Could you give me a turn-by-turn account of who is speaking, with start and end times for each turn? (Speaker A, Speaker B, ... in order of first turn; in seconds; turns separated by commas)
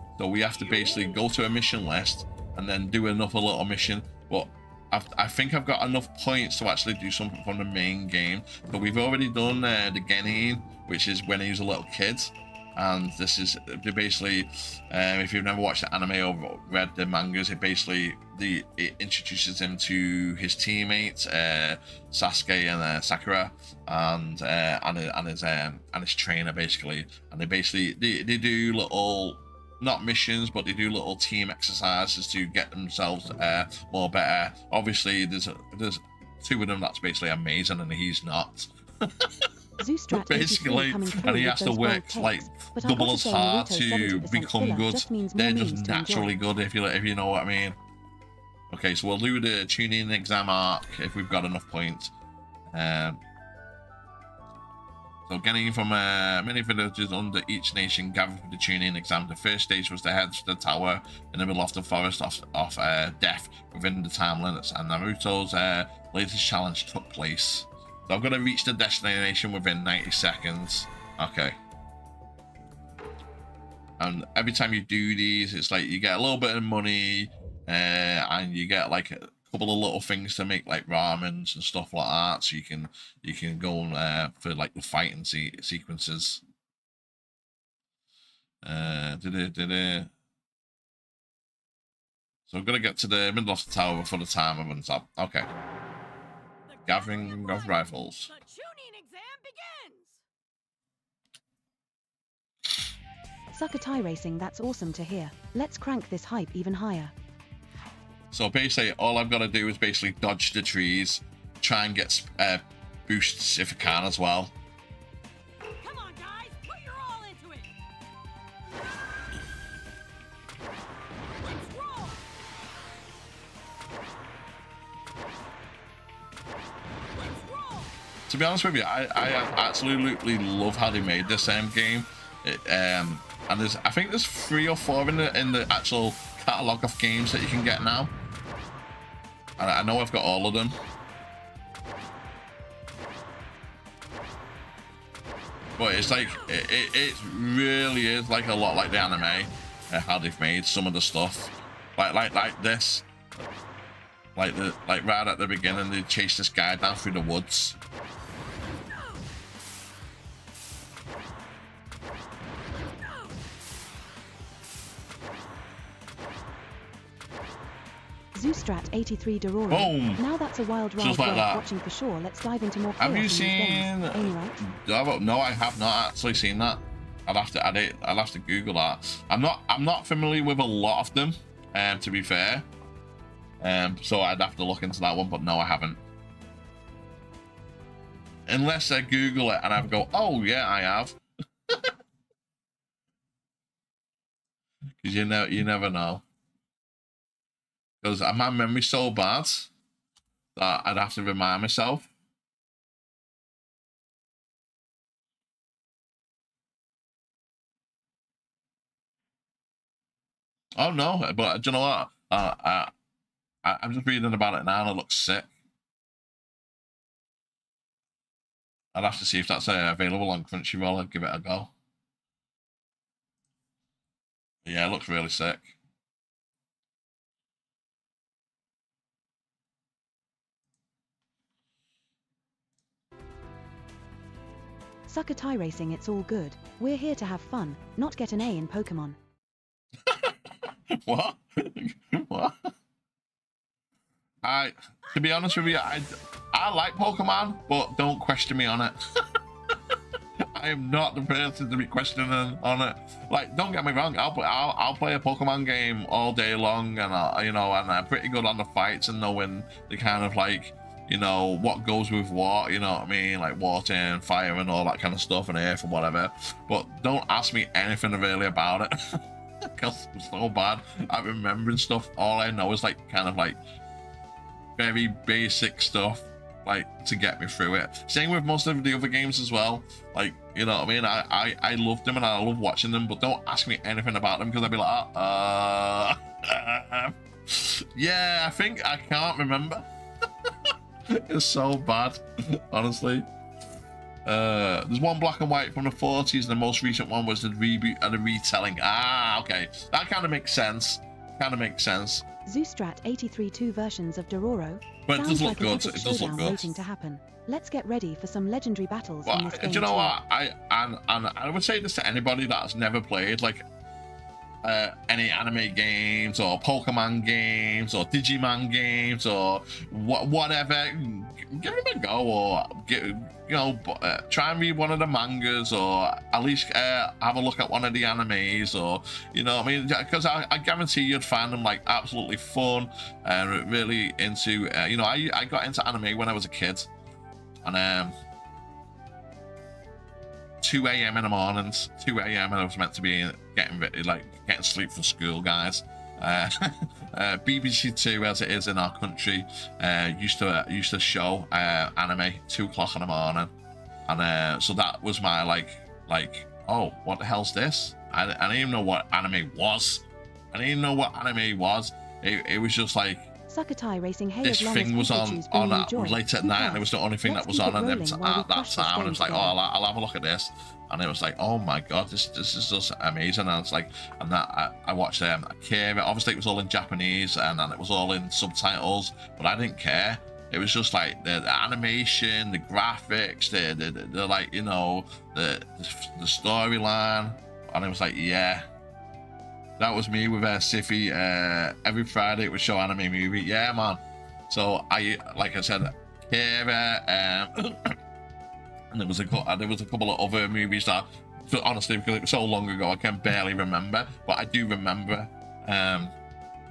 Speaker A: 0.2-39.5, Speaker B: 39.8-46.3, Speaker A: 40.1-47.8, Speaker A: 48.7-52.1, Speaker A: 52.7-53.2, Speaker A: 55.3-71.6, Speaker A: 74.0-86.4, Speaker A: 88.6-90.1, Speaker A: 92.5-95.5, Speaker C: 96.7-100.2, Speaker A: 96.9-98.3, Speaker B: 103.5-107.1, Speaker A: 108.3-114.5, Speaker C: 115.8-117.7, Speaker C: 121.3-122.3, Speaker C: 127.2-128.0, Speaker A: 128.3-138.1, Speaker A: 139.6-140.8, Speaker A: 145.8-153.1, Speaker A: 154.4-157.8, Speaker C: 163.0-163.3, Speaker B: 168.3-174.6, Speaker A: 169.7-170.2, Speaker A: 171.0-171.7, Speaker A: 173.0-182.7, Speaker A: 183.6-186.0, Speaker A: 188.5-191.9, Speaker A: 195.0-196.2, Speaker A: 198.0-199.7, Speaker A: 200.6-202.1, Speaker A: 210.8-212.9, Speaker A: 213.6-215.5, Speaker A: 218.9-221.7, Speaker A: 224.7-225.8, Speaker B: 235.1-239.2, Speaker A: 240.1-242.7, Speaker A: 244.4-249.4, Speaker C: 245.1-245.9, Speaker A: 250.5-273.6, Speaker A: 274.8-289.9, Speaker A: 290.4-293.3, Speaker A: 294.2-302.2, Speaker B: 302.5-310.2, Speaker A: 305.1-306.7, Speaker A: 309.2-313.7, Speaker A: 314.6-336.9, Speaker A: 337.6-338.2, Speaker A: 340.6-353.5, Speaker A: 354.1-363.3, Speaker B: 363.5-369.6, Speaker A: 364.4-388.7, Speaker A: 389.8-398.0, Speaker A: 398.9-406.1